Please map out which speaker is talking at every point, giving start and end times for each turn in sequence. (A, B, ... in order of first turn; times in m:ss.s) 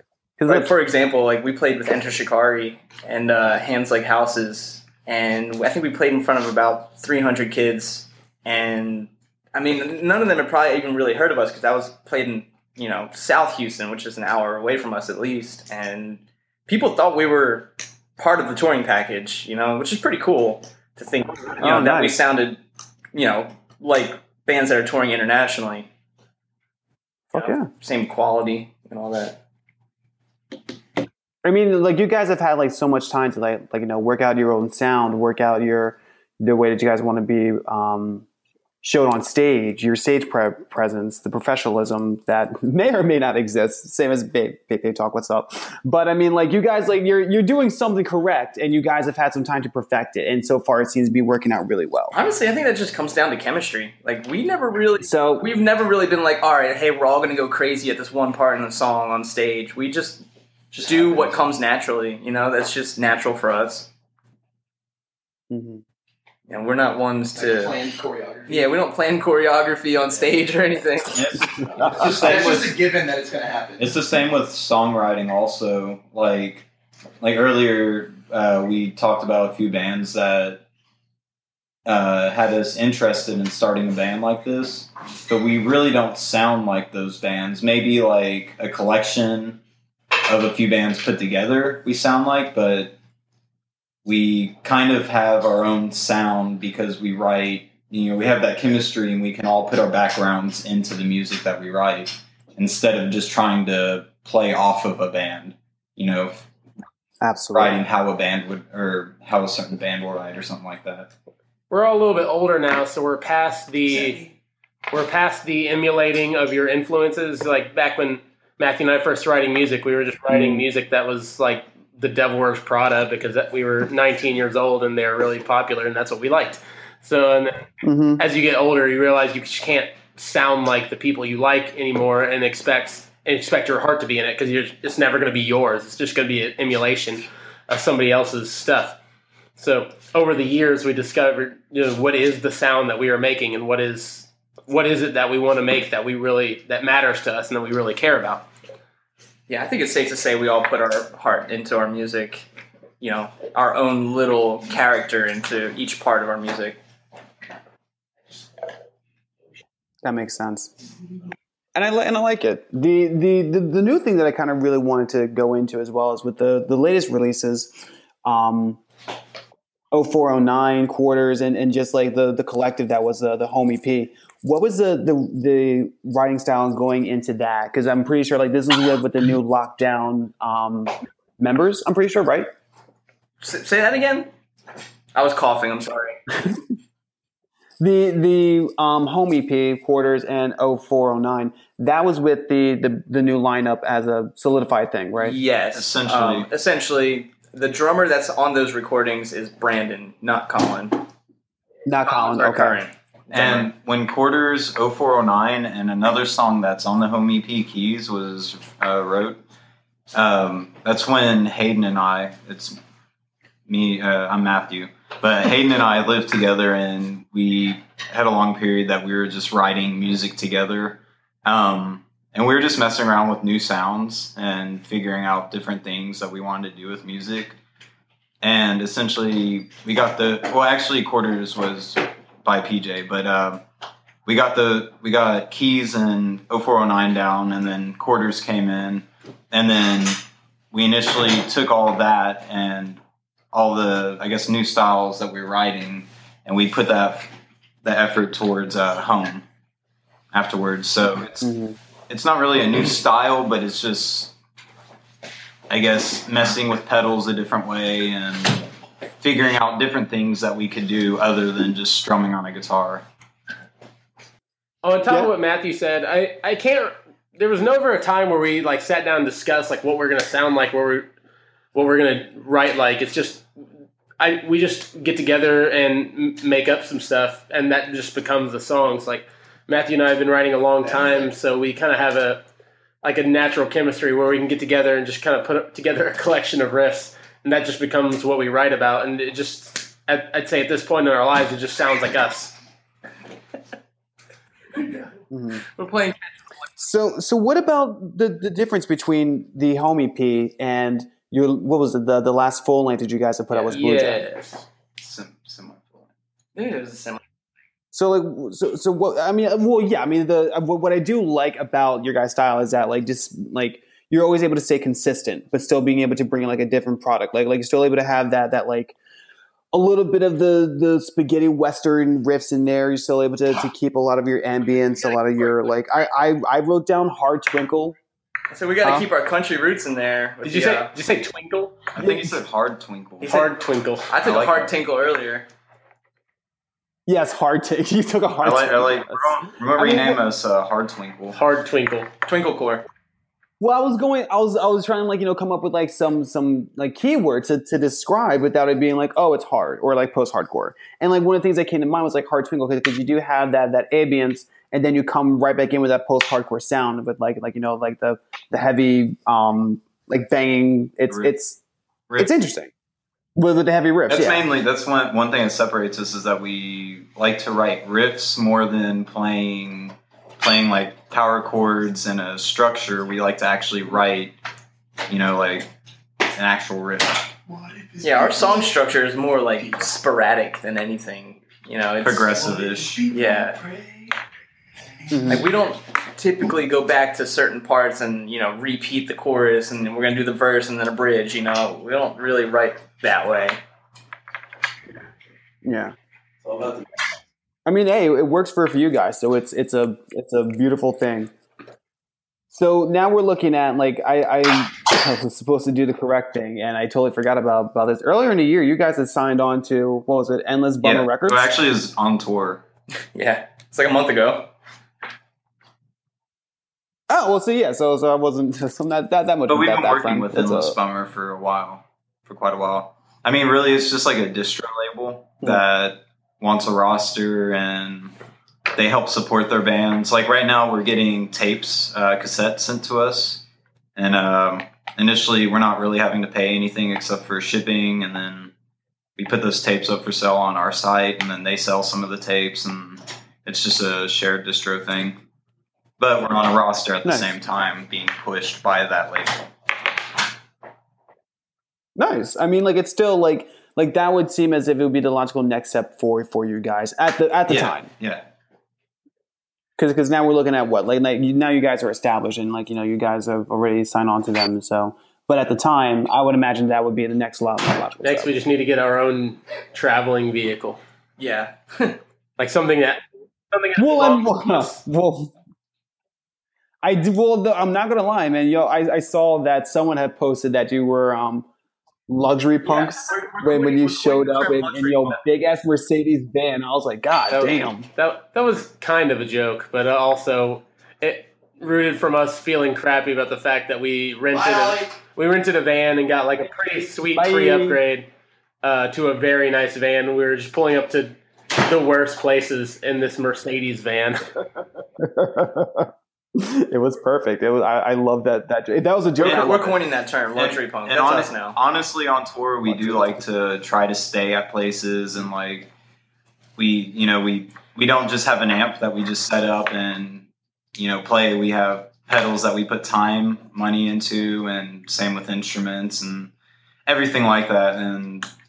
0:00.4-0:00.7 A
0:00.4-0:22.6 B
0:21.6-0:22.2 A
0:23.1-0:25.9 B
0:27.3-0:27.7 A
0:27.3-0:29.4 B
0:31.4-0:38.2 A
0:38.8-0:52.2 A
0:52.1-1:00.3 B
0:55.0-0:55.5 A
1:00.7-1:01.4 C
1:00.8-1:03.9 B
1:05.5-1:05.8 A
1:06.5-1:07.8 B
1:07.4-1:08.8 C
1:08.5-1:11.2 B
1:11.1-1:12.8 D
1:11.6-1:14.0 C
1:13.8-1:16.7 D
1:17.2-1:20.6 D
1:21.8-1:29.6 D
1:30.3-1:33.0 D
1:34.0-1:46.5 D
1:47.2-1:47.8 A
1:47.5-1:51.1 D
1:51.7-1:54.2 E
1:54.9-2:19.0 E
2:00.3-2:00.7 A
2:07.8-2:08.2 A
2:19.6-2:28.5 E
2:29.5-2:32.5 B
2:33.0-2:36.8 B
2:40.0-2:40.7 A
2:41.8-2:47.7 A
2:48.2-2:48.8 A
2:49.9-3:02.5 A
3:03.4-3:04.3 B
3:05.1-3:06.2 B
3:07.8-3:15.4 A
3:15.2-3:21.0 B
3:15.7-3:16.5 D
3:21.9-3:22.8 A
3:22.1-3:23.7 B
3:23.3-3:29.4 D
3:30.1-3:32.8 D
3:33.7-3:47.6 D
3:48.4-3:53.6 D
3:54.3-4:03.0 D
4:03.5-4:09.4 D
4:10.3-4:11.5 D
4:11.4-4:11.8 A
4:12.1-4:14.3 D
4:15.7-4:18.7 D
4:19.2-4:23.0 D
4:24.8-4:31.1 E
4:31.7-4:33.5 E
4:34.2-4:42.4 E
4:43.0-4:52.6 E
4:55.3-4:55.6 A
4:55.8-4:56.2 B
4:56.8-5:04.2 A
5:03.7-5:04.6 E
5:05.0-5:06.1 D
5:06.6-5:07.2 B
5:07.9-5:19.0 A
5:19.7-5:28.0 A
5:28.5-5:30.9 B
5:28.8-5:29.1 A
5:30.4-5:31.8 E
5:32.0-5:33.4 D
5:32.0-5:32.4 A
5:33.2-5:33.5 B
5:33.2-5:34.1 E
5:34.1-5:35.5 B
5:34.2-5:34.8 D
5:37.1-5:40.2 A
5:38.4-5:41.4 D
5:41.3-5:42.1 E
5:42.2-5:42.9 B
5:43.6-6:01.6 A
6:02.2-6:02.7 A
6:03.4-6:04.4 A
6:04.1-6:14.4 D
6:15.1-6:15.7 D
6:16.3-6:17.3 D
6:17.5-6:18.6 C
6:18.0-6:22.5 B
6:22.0-6:23.1 D
6:22.5-6:24.1 C
6:23.1-6:23.6 B
6:25.1-6:25.5 A
6:25.3-6:33.6 B
6:35.6-6:36.0 A
6:36.4-6:36.8 C
6:37.7-6:41.3 A
6:42.5-6:51.5 A
6:50.8-6:52.6 D
6:53.2-6:54.5 B
6:57.1-7:00.8 A
6:59.5-7:08.1 D
7:08.8-7:13.4 D
7:14.0-7:18.5 D
7:19.2-7:25.2 D
7:26.0-7:29.5 D
7:27.0-7:27.3 A
7:32.0-7:37.9 A
7:37.5-7:38.2 D
7:39.8-7:48.3 A
7:48.0-7:50.8 E
7:51.2-7:52.0 B
7:52.4-7:54.8 E
7:53.8-7:55.3 A
7:56.8-8:01.5 A
8:02.1-8:07.9 A
8:07.3-8:18.1 E
8:17.1-8:17.8 A
8:18.6-8:24.2 E
8:25.0-8:29.8 A
8:29.2-8:29.6 D
8:29.2-8:31.6 B
8:30.4-8:35.7 D
8:32.7-8:33.2 A
8:36.6-8:46.3 D
8:46.9-8:48.3 D